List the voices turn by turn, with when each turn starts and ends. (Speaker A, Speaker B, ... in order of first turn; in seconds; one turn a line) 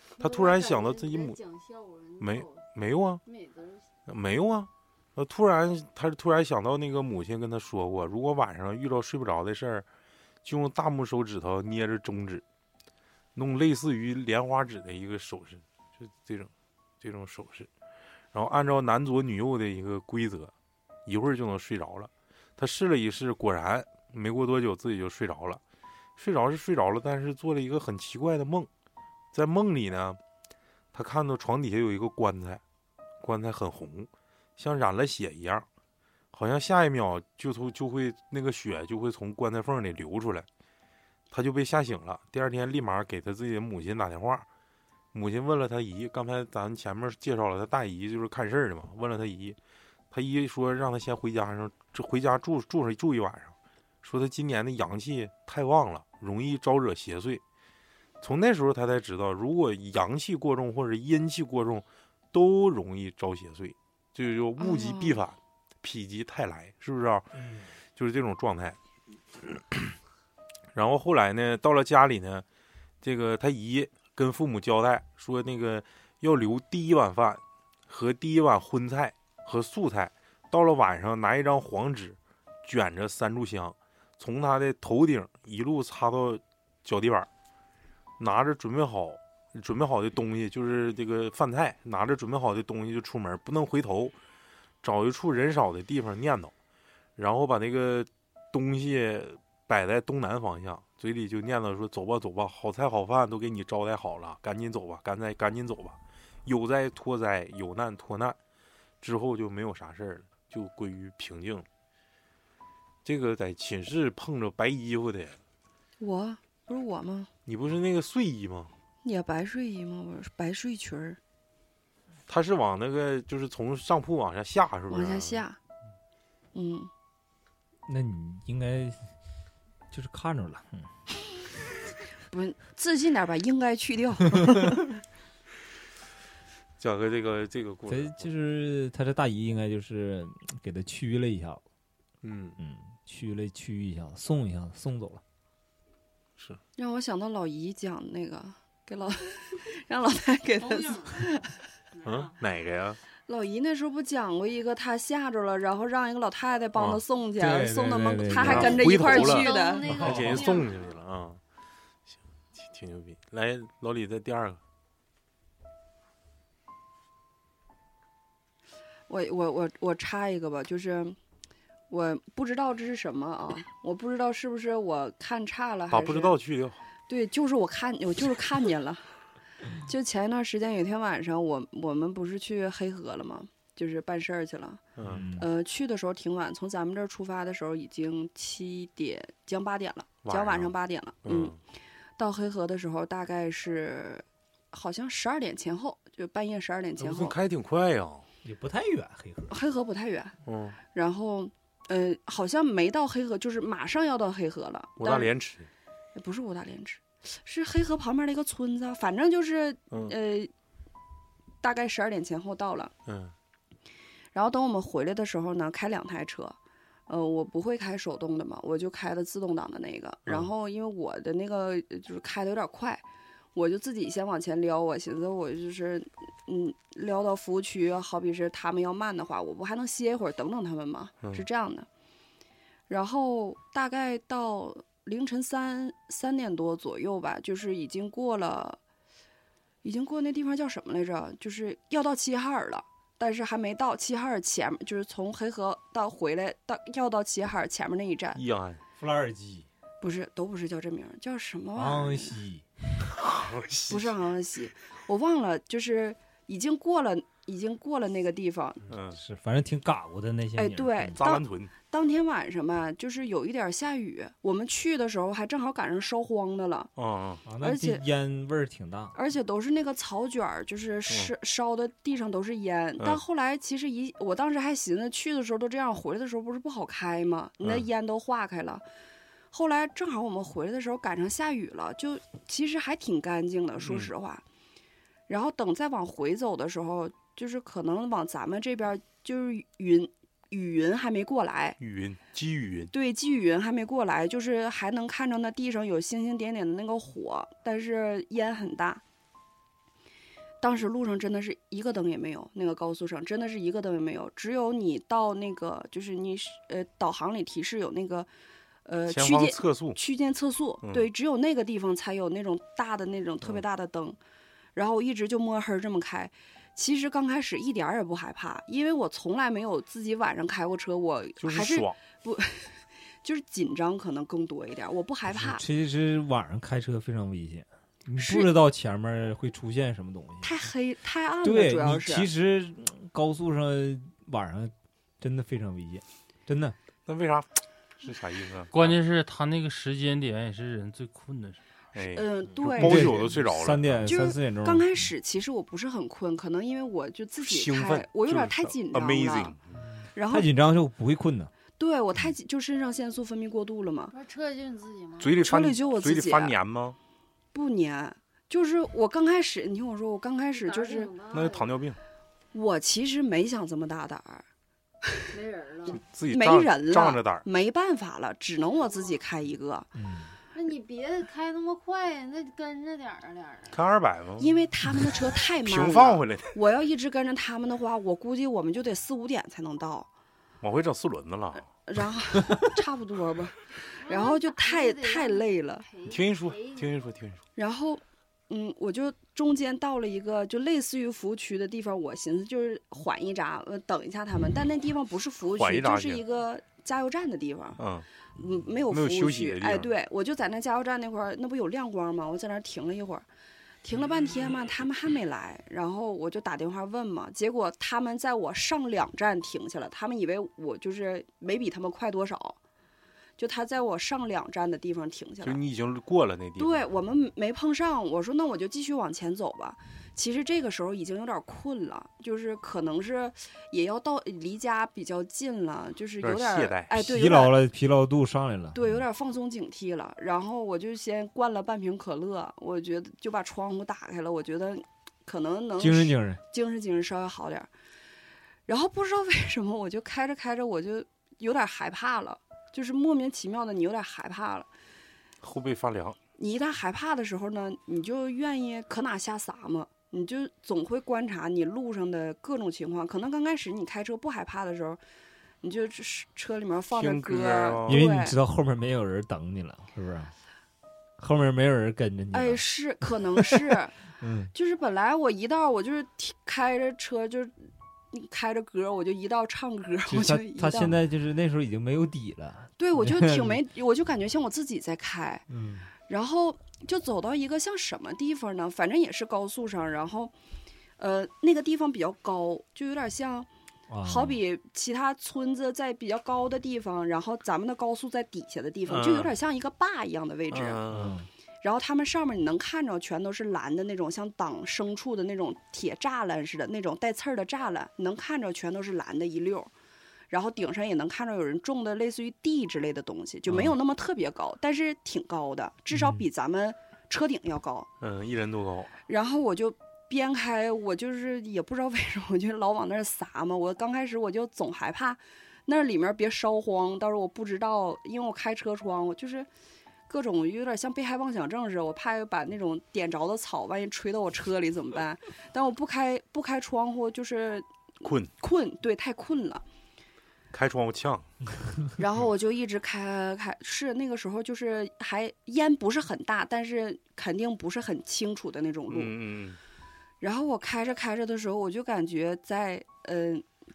Speaker A: 0.1-2.6
Speaker B: 0.2-1.4
Speaker B: 2.2-3.2
Speaker A: 3.2-3.9
Speaker B: 4.1-9.8
Speaker B: 10.4-12.4
Speaker B: 13.3-17.7
Speaker B: 18.3-20.5
Speaker B: 21.1-25.6
Speaker B: 26.2-28.7
Speaker B: 29.3-30.2
Speaker B: 30.9-32.6
Speaker B: 33.2-35.6
Speaker B: 36.3-40.5
Speaker B: 41.3-44.5
Speaker B: 45.1-49.6
Speaker B: 50.1-57.4
Speaker B: 58.2-68.8
Speaker C: 64.6-65.2
Speaker D: 67.4-67.7
Speaker B: 69.4-69.9
Speaker B: 70.7-72.4
Speaker B: 73.0-87.3
Speaker B: 88.2-94.1
Speaker B: 94.8-96.5
Speaker B: 97.2-108.4
Speaker B: 109.0-111.6
Speaker B: 113.0-115.4
Speaker C: 116.0-117.3
Speaker B: 117.5-118.7
Speaker C: 119.0-121.2
Speaker B: 122.3-125.4
Speaker C: 124.9-125.6
Speaker C: 126.5-126.9
Speaker D: 127.8-129.1
Speaker D: 129.9-130.9
Speaker C: 132.3-134.8
Speaker B: 136.8-138.3
Speaker D: 137.9-141.6
Speaker B: 142.2-142.6
Speaker D: 142.6-145.2
Speaker C: 146.8-151.6
Speaker A: 150.6-151.3
Speaker A: 151.9-152.3
Speaker B: 152.0-153.0
Speaker C: 153.3-160.1
Speaker B: 156.7-157.0
Speaker D: 157.4-158.9
Speaker B: 158.3-161.4
Speaker A: 158.9-160.9
Speaker B: 162.6-164.6
Speaker C: 169.1-171.2
Speaker C: 171.9-176.4
Speaker B: 175.9-176.8
Speaker C: 177.1-179.0
Speaker C: 179.8-184.8
Speaker B: 185.0-185.2
Speaker D: 185.0-185.5
Speaker C: 185.3-191.6
Speaker B: 190.2-190.7
Speaker B: 191.2-191.6
Speaker C: 192.2-197.3
Speaker B: 197.0-198.2
Speaker D: 198.4-199.6
Speaker C: 199.5-200.3
Speaker B: 200.4-200.8
Speaker C: 200.9-205.3
Speaker B: 205.0-205.7
Speaker C: 206.1-210.5
Speaker C: 211.6-212.9
Speaker B: 213.1-213.3
Speaker C: 214.3-216.6
Speaker C: 217.1-231.9
Speaker C: 232.9-238.8
Speaker C: 239.8-248.4
Speaker B: 248.3-248.8
Speaker D: 249.0-249.7
Speaker C: 250.0-252.4
Speaker D: 251.8-252.6
Speaker B: 253.1-254.2
Speaker C: 253.9-258.8
Speaker B: 258.9-259.2
Speaker D: 259.1-261.2
Speaker C: 260.5-266.9
Speaker B: 261.1-261.7
Speaker B: 266.9-267.4
Speaker D: 267.4-269.1
Speaker C: 267.6-268.0
Speaker C: 269.1-278.8
Speaker C: 279.5-284.4
Speaker B: 283.8-284.1
Speaker C: 285.3-291.8
Speaker B: 291.8-292.9
Speaker C: 292.9-299.0
Speaker C: 300.6-308.3
Speaker C: 308.8-314.2
Speaker B: 309.1-310.0
Speaker B: 310.8-311.1
Speaker C: 314.7-325.6
Speaker B: 321.4-322.0
Speaker D: 325.3-330.6
Speaker C: 328.2-328.5
Speaker C: 330.4-332.3
Speaker D: 331.4-336.8
Speaker B: 337.1-337.5
Speaker B: 338.0-338.9
Speaker E: 338.7-341.6
Speaker B: 341.9-344.1
Speaker C: 342.0-343.2
Speaker D: 342.6-345.1
Speaker C: 344.1-349.6
Speaker B: 347.4-349.8
Speaker C: 350.1-350.5
Speaker D: 350.3-351.5
Speaker C: 351.8-354.1
Speaker A: 354.1-355.4
Speaker B: 355.2-357.0
Speaker C: 355.4-356.6
Speaker C: 357.5-361.1
Speaker A: 360.5-361.8
Speaker B: 361.3-362.0
Speaker C: 362.5-364.4
Speaker A: 365.3-366.0
Speaker B: 365.9-367.5
Speaker C: 366.3-369.9
Speaker A: 368.5-369.2
Speaker D: 369.9-370.3
Speaker A: 370.5-373.8
Speaker B: 373.7-374.5
Speaker C: 374.4-380.1
Speaker B: 375.6-376.6
Speaker B: 380.6-381.7
Speaker C: 381.9-385.9
Speaker A: 384.0-387.0
Speaker B: 386.0-387.4
Speaker C: 387.6-397.8
Speaker B: 395.6-396.2
Speaker B: 397.8-398.1
Speaker C: 398.4-403.2
Speaker B: 398.9-399.9
Speaker C: 403.8-412.6
Speaker C: 413.4-415.6
Speaker B: 415.4-416.9
Speaker C: 416.6-427.5
Speaker B: 426.2-426.9
Speaker D: 426.9-429.0
Speaker C: 428.7-437.7
Speaker D: 435.8-436.4
Speaker C: 438.7-444.7
Speaker B: 445.4-446.2
Speaker C: 446.4-455.0
Speaker C: 455.6-458.4
Speaker B: 456.9-458.0
Speaker D: 457.9-460.3
Speaker D: 461.2-464.5
Speaker C: 462.3-463.9
Speaker C: 464.5-471.0
Speaker D: 470.1-473.6
Speaker C: 472.8-475.4
Speaker D: 475.5-475.9
Speaker C: 476.1-480.3
Speaker C: 481.0-483.5
Speaker D: 483.9-484.4
Speaker C: 484.0-490.8
Speaker B: 488.9-489.3
Speaker B: 490.5-491.2
Speaker D: 490.9-491.3
Speaker C: 491.6-499.7
Speaker C: 500.3-507.9
Speaker D: 503.5-503.8
Speaker D: 505.9-506.2
Speaker B: 508.0-508.9
Speaker C: 509.1-519.5
Speaker C: 520.1-527.7
Speaker B: 528.0-528.3
Speaker C: 528.4-529.6
Speaker B: 530.5-531.3
Speaker C: 532.0-539.1
Speaker B: 538.9-539.6
Speaker C: 540.2-543.4